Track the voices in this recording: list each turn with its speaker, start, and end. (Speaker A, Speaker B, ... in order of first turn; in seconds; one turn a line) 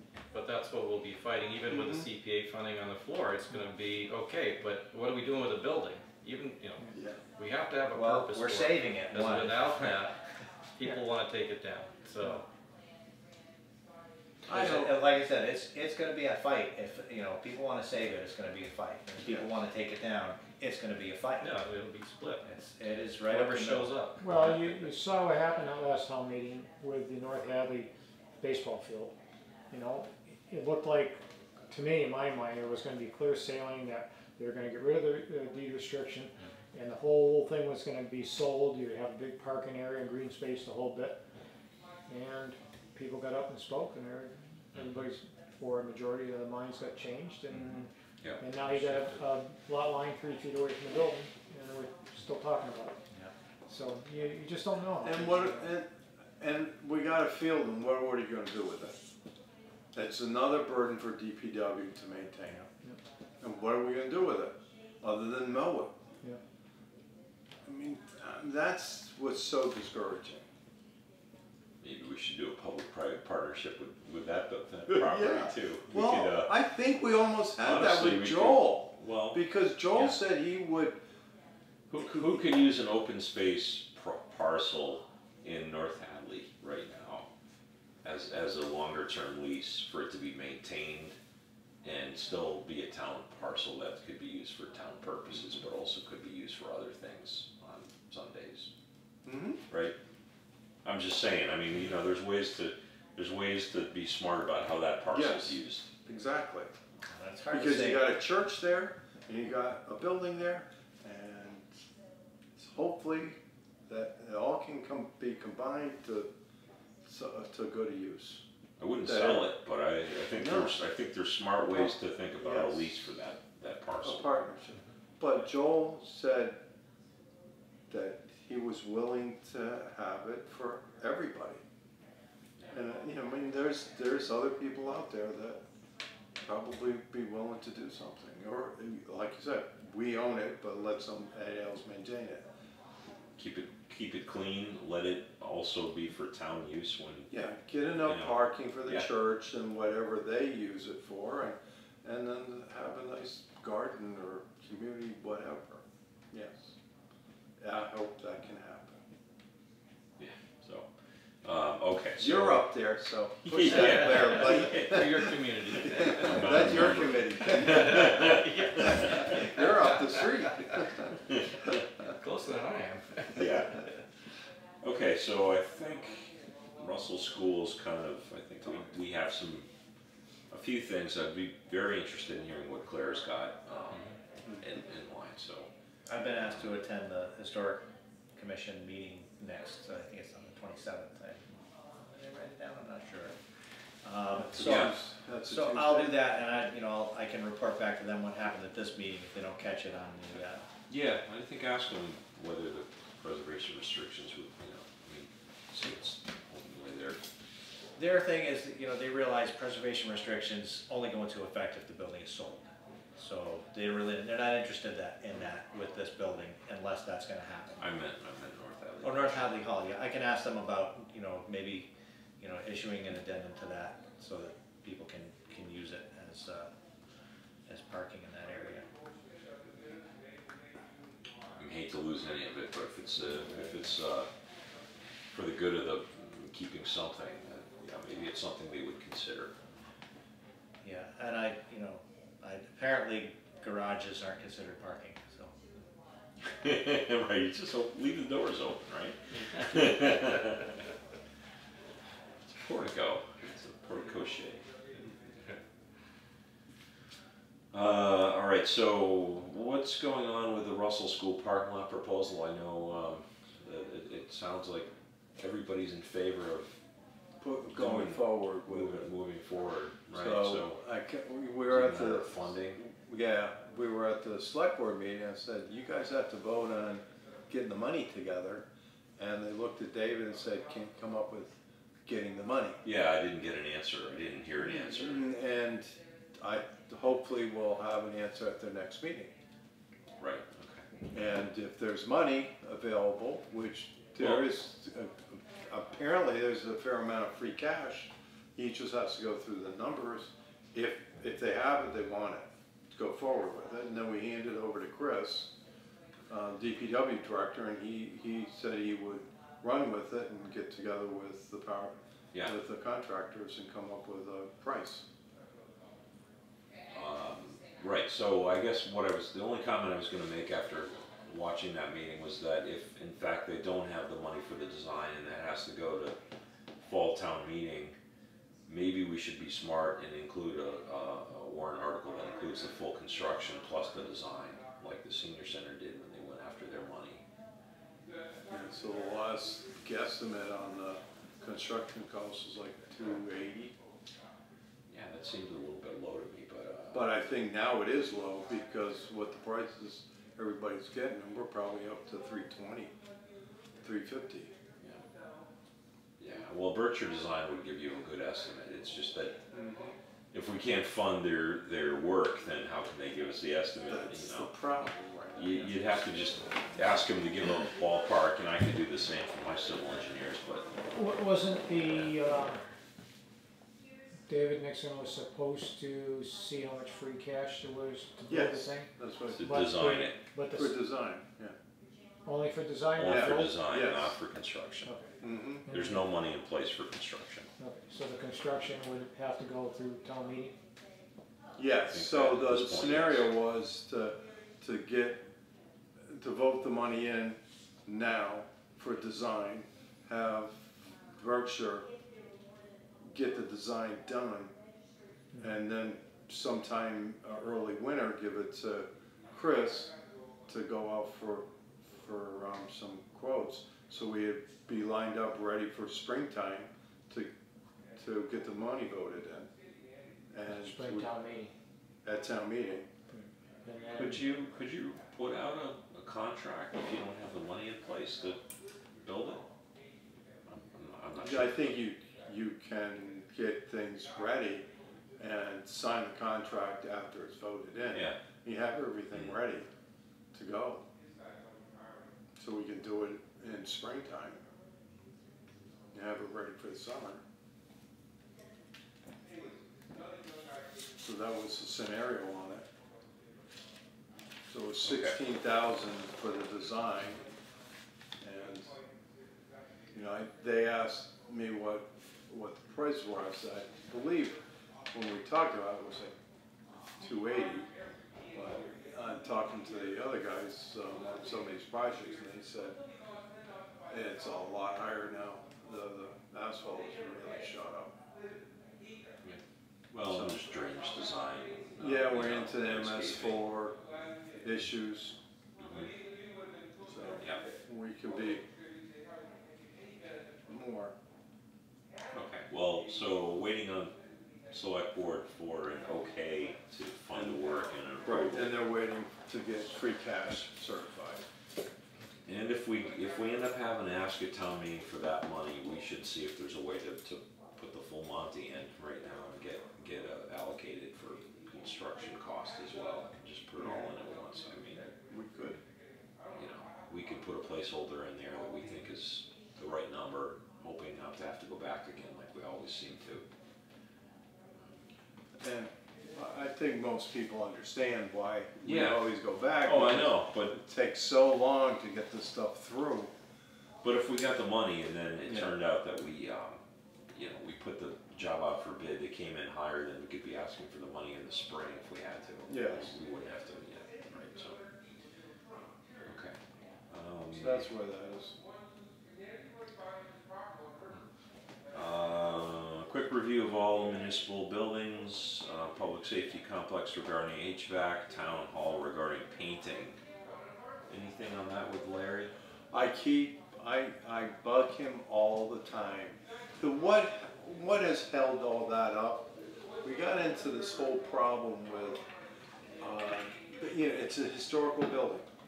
Speaker A: 0.3-10.2
Speaker B: 1.7-2.1
Speaker B: 6.9-7.2
Speaker C: 7.9-9.9
Speaker A: 10.8-12.5
Speaker B: 14.5-15.0
Speaker C: 14.5-21.6
Speaker A: 21.4-22.5
Speaker C: 22.4-23.9
Speaker A: 23.3-24.9
Speaker D: 24.2-29.1
Speaker D: 29.7-41.2
Speaker D: 42.1-53.0
Speaker E: 48.2-49.2
Speaker D: 53.7-55.7
Speaker B: 55.0-55.9
Speaker B: 56.4-59.0
Speaker B: 59.9-62.7
Speaker B: 63.4-65.9
Speaker B: 67.7-70.5
Speaker E: 71.8-76.5
Speaker B: 74.9-81.0
Speaker E: 77.6-79.4
Speaker E: 81.9-87.3
Speaker B: 82.0-82.4
Speaker E: 88.0-91.2
Speaker E: 91.8-98.7
Speaker B: 95.3-95.6
Speaker B: 99.2-99.6
Speaker E: 99.7-100.0
Speaker E: 100.8-105.9
Speaker B: 105.1-106.8
Speaker C: 107.0-108.1
Speaker B: 107.5-111.7
Speaker B: 112.6-116.3
Speaker B: 117.0-118.4
Speaker E: 118.8-124.3
Speaker B: 119.0-119.5
Speaker B: 120.3-120.8
Speaker B: 121.7-123.0
Speaker B: 124.0-126.6
Speaker B: 127.9-131.6
Speaker B: 132.7-135.6
Speaker B: 136.4-142.5
Speaker E: 143.4-147.3
Speaker B: 147.3-156.7
Speaker E: 148.0-149.1
Speaker B: 157.6-159.0
Speaker E: 160.2-160.9
Speaker E: 161.4-162.7
Speaker B: 162.2-171.2
Speaker E: 163.4-169.6
Speaker A: 163.7-170.8
Speaker E: 171.3-171.7
Speaker A: 172.0-173.9
Speaker E: 173.3-173.9
Speaker E: 174.8-179.7
Speaker E: 180.5-185.7
Speaker C: 186.1-193.4
Speaker E: 186.4-186.8
Speaker C: 194.0-200.6
Speaker B: 194.3-196.2
Speaker E: 194.6-195.0
Speaker E: 200.9-207.2
Speaker C: 208.0-217.8
Speaker E: 217.8-219.4
Speaker C: 219.0-226.7
Speaker C: 227.7-228.9
Speaker E: 231.6-234.3
Speaker E: 235.3-239.6
Speaker C: 240.8-245.6
Speaker E: 246.4-250.7
Speaker A: 249.5-249.9
Speaker E: 252.4-254.7
Speaker E: 257.7-266.8
Speaker B: 267.4-269.0
Speaker E: 267.7-270.8
Speaker B: 270.1-278.7
Speaker E: 271.7-272.8
Speaker B: 279.2-282.8
Speaker E: 282.8-285.3
Speaker B: 284.6-289.3
Speaker E: 290.2-290.9
Speaker B: 291.1-305.5
Speaker E: 294.2-294.5
Speaker B: 306.3-315.0
Speaker E: 316.9-326.2
Speaker E: 326.8-328.0
Speaker E: 328.7-337.2
Speaker B: 338.5-343.8
Speaker E: 344.9-347.1
Speaker B: 346.9-352.9
Speaker B: 353.8-354.5
Speaker E: 356.2-359.4
Speaker B: 359.5-360.0
Speaker E: 360.3-364.5
Speaker B: 363.9-366.1
Speaker E: 365.3-370.7
Speaker D: 370.9-372.6
Speaker D: 374.3-380.8
Speaker B: 378.3-379.6
Speaker E: 379.3-380.2
Speaker B: 380.5-381.6
Speaker D: 382.2-383.6
Speaker E: 383.0-384.9
Speaker B: 383.0-384.2
Speaker D: 384.9-385.1
Speaker B: 385.2-385.7
Speaker D: 385.7-386.0
Speaker E: 385.7-387.5
Speaker D: 387.6-390.6
Speaker B: 391.6-395.2
Speaker E: 391.9-393.3
Speaker B: 396.0-401.9
Speaker B: 403.0-404.5
Speaker B: 405.4-409.9
Speaker B: 410.5-417.3
Speaker B: 418.0-419.5
Speaker B: 420.3-421.1
Speaker D: 420.5-421.5
Speaker B: 422.0-422.9
Speaker D: 423.1-424.2
Speaker E: 424.0-428.4
Speaker E: 429.0-429.4
Speaker E: 430.5-431.8
Speaker B: 431.2-434.7
Speaker B: 435.2-439.7
Speaker E: 437.9-438.2
Speaker B: 440.3-440.8
Speaker B: 442.4-444.4
Speaker B: 445.9-447.2
Speaker B: 451.0-452.7
Speaker B: 454.5-457.2
Speaker E: 454.8-455.2
Speaker B: 458.2-458.7
Speaker B: 459.9-466.1
Speaker B: 467.0-467.7
Speaker B: 468.3-472.8
Speaker B: 473.9-477.9
Speaker E: 479.2-483.4
Speaker B: 480.1-480.4
Speaker B: 481.8-483.8
Speaker B: 484.4-485.2
Speaker E: 485.6-485.9
Speaker B: 486.9-488.4
Speaker E: 487.2-487.4
Speaker B: 490.5-490.9
Speaker E: 492.1-493.9
Speaker E: 494.5-498.5
Speaker B: 498.0-501.3
Speaker E: 502.2-514.9
Speaker B: 513.6-513.9
Speaker B: 514.8-515.6
Speaker E: 516.3-523.3
Speaker B: 525.4-533.1
Speaker E: 528.6-530.6
Speaker E: 533.8-536.6
Speaker B: 535.3-535.5
Speaker E: 537.1-544.6
Speaker B: 542.5-542.9
Speaker E: 546.0-546.4
Speaker E: 546.9-547.7
Speaker B: 547.3-548.4
Speaker E: 551.7-560.0
Speaker E: 560.9-562.3
Speaker B: 562.7-572.0
Speaker B: 572.8-575.3